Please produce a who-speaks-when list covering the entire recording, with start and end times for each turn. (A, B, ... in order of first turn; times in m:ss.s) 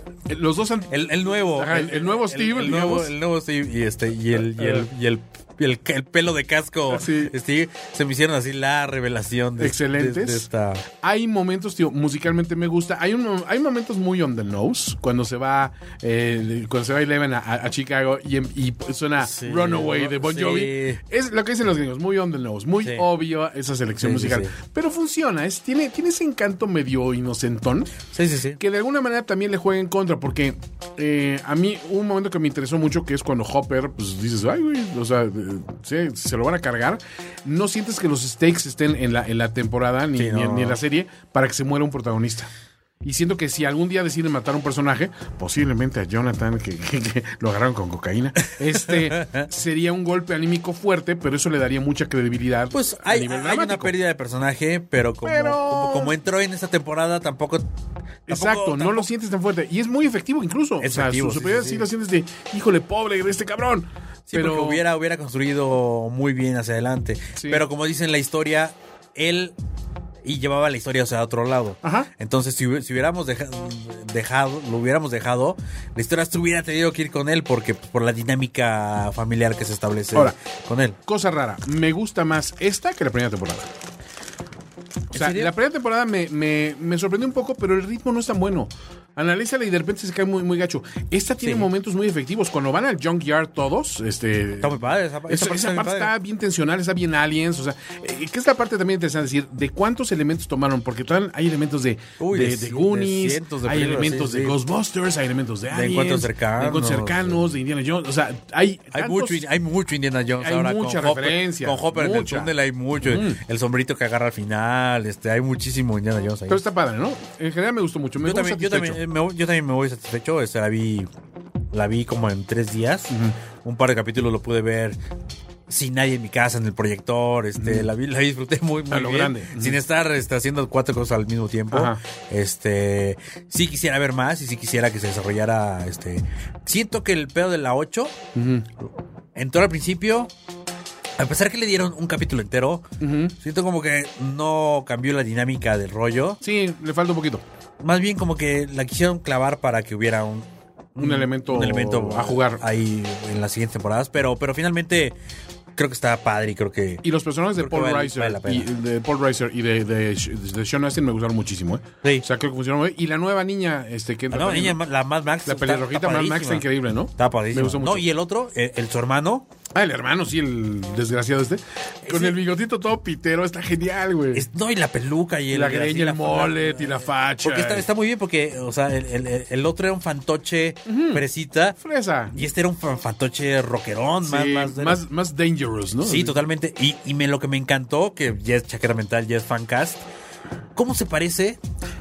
0:00.3-0:03.1 A
0:00.9-0:10.8 B
0:04.4-0:04.9 A
0:06.9-0:07.3 A
0:09.6-0:27.9 A
0:19.2-0:21.0 B
0:22.8-0:23.1 B
0:24.0-0:24.5 B
0:28.1-0:28.6 B
0:28.6-0:42.5 A
0:40.2-0:40.8 B
0:43.0-0:53.9 A
0:48.8-0:49.5 B
0:52.7-0:57.6 B
0:55.2-0:56.2 A
0:58.3-0:59.1 B
0:58.3-1:04.8 A
1:00.8-1:01.8 B
1:04.3-1:09.5 B
1:07.4-1:07.6 A
1:10.2-1:21.0 B
1:11.8-1:12.1 A
1:21.0-1:23.7 A
1:25.1-1:49.4 A
1:25.1-1:25.5 B
1:31.4-1:31.7 B
1:34.6-1:36.1 B
1:42.2-1:44.6 B
1:45.7-1:47.4 B
1:48.9-1:56.6 B
1:50.4-1:53.4 A
1:56.5-1:59.0 A
1:58.2-2:01.1 B
2:01.7-2:05.0 B
2:03.1-2:03.4 A
2:05.7-2:18.2 B
2:07.6-2:07.9 A
2:08.9-2:09.8 A
2:11.7-2:12.0 A
2:18.3-2:18.7 A
2:19.4-2:20.3 B
2:21.2-2:22.9 B
2:23.0-2:23.3 A
2:23.4-2:26.4 B
2:26.4-2:27.4 A
2:27.8-2:35.2 B
2:31.0-2:32.6 A
2:35.8-2:37.0 B
2:37.0-2:44.8 A
2:37.6-2:38.7 B
2:44.3-2:49.5 B
2:45.4-2:48.1 A
2:49.7-2:54.4 A
2:52.0-2:52.4 B
2:54.3-3:01.8 B
2:55.5-2:57.9 A
3:00.9-3:01.2 A
3:01.8-3:02.4 A
3:02.3-3:05.0 B
3:04.2-3:06.4 A
3:06.0-3:10.0 B
3:10.7-3:11.6 B